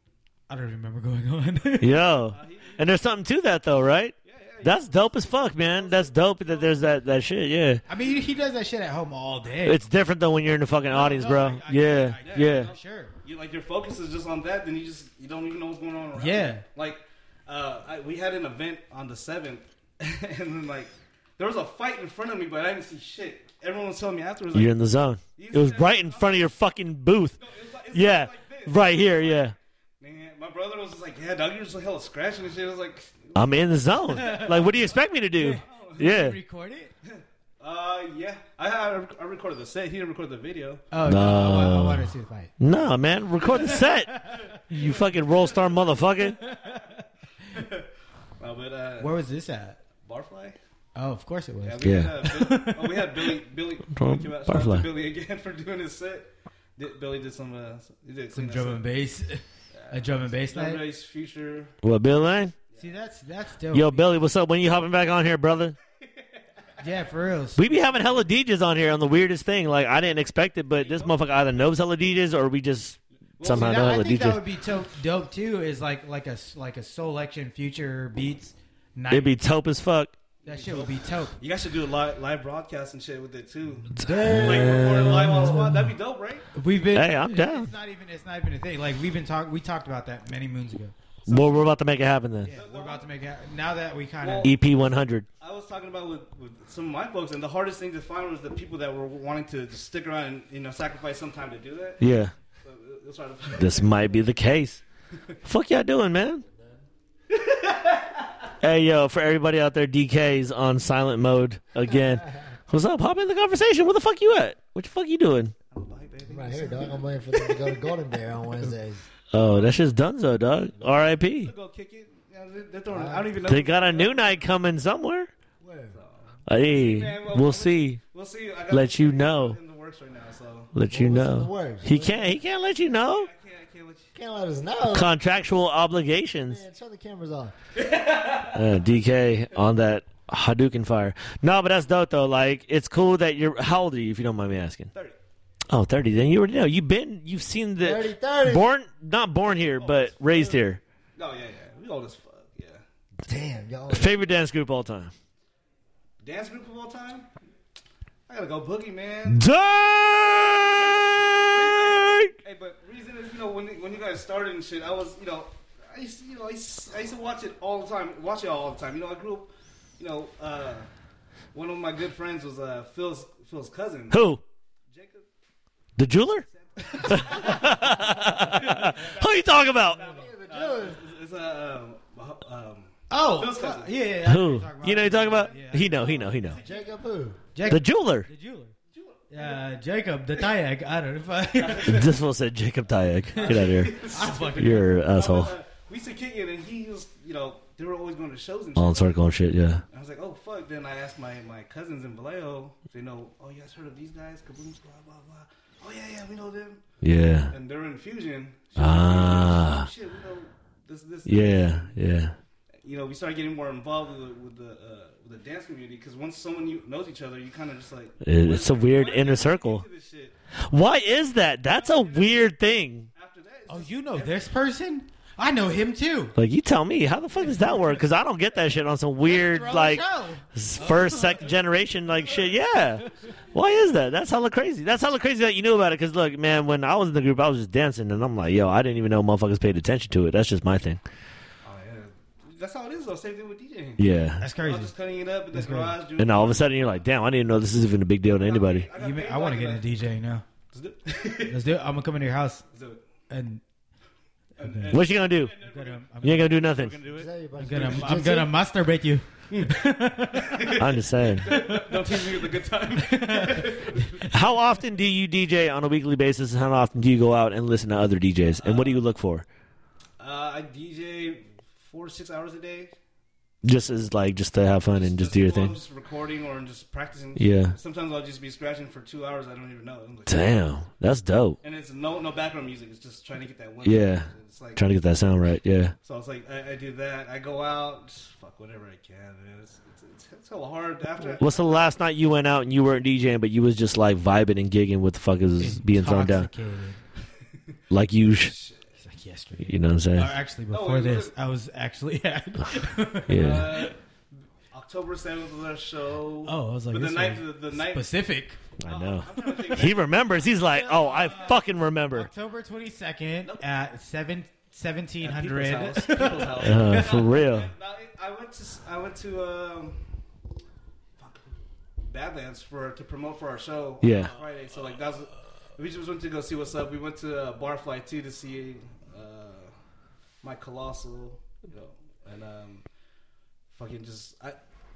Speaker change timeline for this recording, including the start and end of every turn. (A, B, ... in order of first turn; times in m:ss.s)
0:00.5-0:02.0 A
0:01.8-0:07.8 B
0:02.3-0:02.9 C
0:04.2-0:06.9 C
0:07.9-0:09.8 A
0:09.6-0:12.7 B
0:10.9-0:13.1 A
0:10.9-0:11.4 C
0:12.2-0:24.8 C
0:16.2-0:16.6 A
0:24.5-0:27.4 B
0:25.3-0:26.5 C
0:27.4-0:36.1 C
0:27.9-0:29.5 B
0:33.3-0:36.4 B
0:34.1-0:34.8 A
0:35.4-0:36.9 A
0:37.0-0:40.9 C
0:40.9-0:42.5 A
0:41.0-0:46.4 B
0:43.4-0:46.8 C
0:43.5-0:44.6 A
0:46.2-0:47.6 A
0:47.5-0:47.8 C
0:48.4-0:49.1 C
0:49.0-0:49.8 A
0:50.0-0:50.6 C
0:50.9-0:53.4 A
0:51.6-0:58.8 C
0:51.8-0:52.1 B
0:53.9-0:54.8 B
0:58.3-1:00.8 A
0:59.7-1:01.8 C
1:01.8-1:02.5 B
1:02.8-1:04.1 A
1:03.7-1:05.8 B
1:06.0-1:06.4 C
1:06.8-1:07.7 A
1:07.6-1:14.4 B
1:10.7-1:11.2 C
1:13.4-1:14.1 C
1:13.5-1:19.4 A
1:19.1-1:20.1 B
1:20.4-1:21.4 A
1:20.4-1:26.4 C
1:23.9-1:25.7 B
1:24.0-1:25.9 A
1:26.5-1:30.9 A
1:26.9-1:27.7 B
1:31.2-1:31.7 C
1:31.2-1:32.5 B
1:32.4-1:34.5 A
1:32.5-1:33.1 C
1:34.2-1:34.6 C
1:34.4-1:35.2 B
1:35.4-1:42.0 C
1:42.0-1:42.3 B
1:42.6-1:44.2 C
1:43.6-1:44.8 B
1:45.4-1:46.4 B
1:46.5-1:46.8 D
1:47.3-1:48.3 C
1:48.6-1:55.5 B
1:51.9-1:52.5 D
1:55.7-1:58.0 C
1:56.2-1:59.1 D
1:59.3-2:01.5 B
1:59.4-1:59.8 C
2:01.4-2:04.4 C
2:02.9-2:03.3 D
2:03.4-2:05.3 B
2:05.6-2:06.0 D
2:05.9-2:10.7 C
2:06.5-2:08.0 B
2:08.7-2:09.6 B
2:10.7-2:13.3 B
2:10.9-2:12.3 D
2:12.9-2:14.1 C
2:14.1-2:15.1 D
2:14.9-2:16.6 B
2:16.5-2:17.5 D
2:17.8-2:18.6 C
2:18.5-2:24.9 B
2:25.7-2:30.8 B
2:27.8-2:28.7 D
2:29.8-2:30.6 C
2:31.2-2:32.8 C
2:33.2-2:34.1 D
2:33.9-2:35.1 B
2:36.2-2:37.3 C
2:38.3-2:39.5 C
2:39.3-2:42.3 B
2:40.7-2:50.9 C
2:51.5-2:54.3 C
2:54.1-2:54.4 B
2:54.9-2:55.3 C
2:56.0-2:56.4 B
2:56.5-3:04.1 C
2:57.0-3:00.0 B
2:59.9-3:01.0 D
3:03.1-3:06.0 A
3:04.2-3:06.6 B
3:05.5-3:06.9 C
3:06.5-3:07.4 D
3:07.5-3:08.7 A
3:07.7-3:08.3 B
3:08.9-3:09.7 C
3:09.3-3:12.1 A
3:11.6-3:12.1 C
3:11.8-3:15.5 B
3:13.3-3:19.2 C
3:13.3-3:15.0 A
3:18.8-3:19.8 B
3:19.9-3:26.8 C
3:27.0-3:27.5 B
3:27.5-3:32.0 C
3:28.8-3:29.9 B
3:31.2-3:32.3 B
3:32.8-3:40.3 C
3:38.2-3:39.8 B
3:40.7-3:43.1 B
3:41.7-3:42.6 C
3:43.1-3:44.5 C
3:43.7-3:46.3 A
3:46.4-4:01.0 B
3:49.2-3:51.5 A
3:52.2-3:53.1 C
4:01.6-4:06.9 C
4:04.0-4:04.4 B
4:04.4-4:04.9 A
4:05.5-4:06.0 A
4:06.2-4:08.9 B
4:08.2-4:09.8 C
4:09.0-4:10.4 A
4:10.7-4:11.6 C
4:11.4-4:12.6 A
4:12.7-4:13.0 C
4:13.3-4:13.6 A
4:14.6-4:15.0 A
4:14.6-4:18.5 C
4:14.9-4:15.5 B
4:15.6-4:16.6 A
4:16.2-4:17.0 B
4:17.1-4:18.5 D
4:17.6-4:20.8 A
4:19.5-4:19.8 C
4:20.3-4:24.3 C
4:20.8-4:21.5 B
4:21.4-4:22.4 A
4:23.0-4:24.3 A
4:24.3-4:29.4 B
4:28.5-4:29.0 C
4:30.2-4:32.9 C
4:33.6-4:35.8 B
4:34.9-4:40.6 C
4:37.4-4:37.8 B
4:40.3-4:41.6 B
4:41.6-4:44.8 C
4:43.8-4:45.9 B
4:46.0-4:51.9 C
4:51.4-4:56.5 B
4:55.6-4:57.0 A
4:57.9-4:58.6 B
4:58.3-4:58.8 C
4:59.0-5:03.9 A
4:59.6-5:00.3 B
5:00.7-5:01.3 C
5:03.3-5:03.9 B
5:03.3-5:04.0 C
5:04.7-5:08.1 C
5:06.4-5:08.6 A
5:08.8-5:12.3 B
5:08.8-5:10.1 C
5:10.7-5:17.3 A
5:10.9-5:11.6 C
5:15.2-5:20.0 C
5:16.6-5:17.7 B
5:21.2-5:29.7 C
5:24.0-5:24.3 B
5:30.4-5:32.8 C
5:33.7-5:34.6 C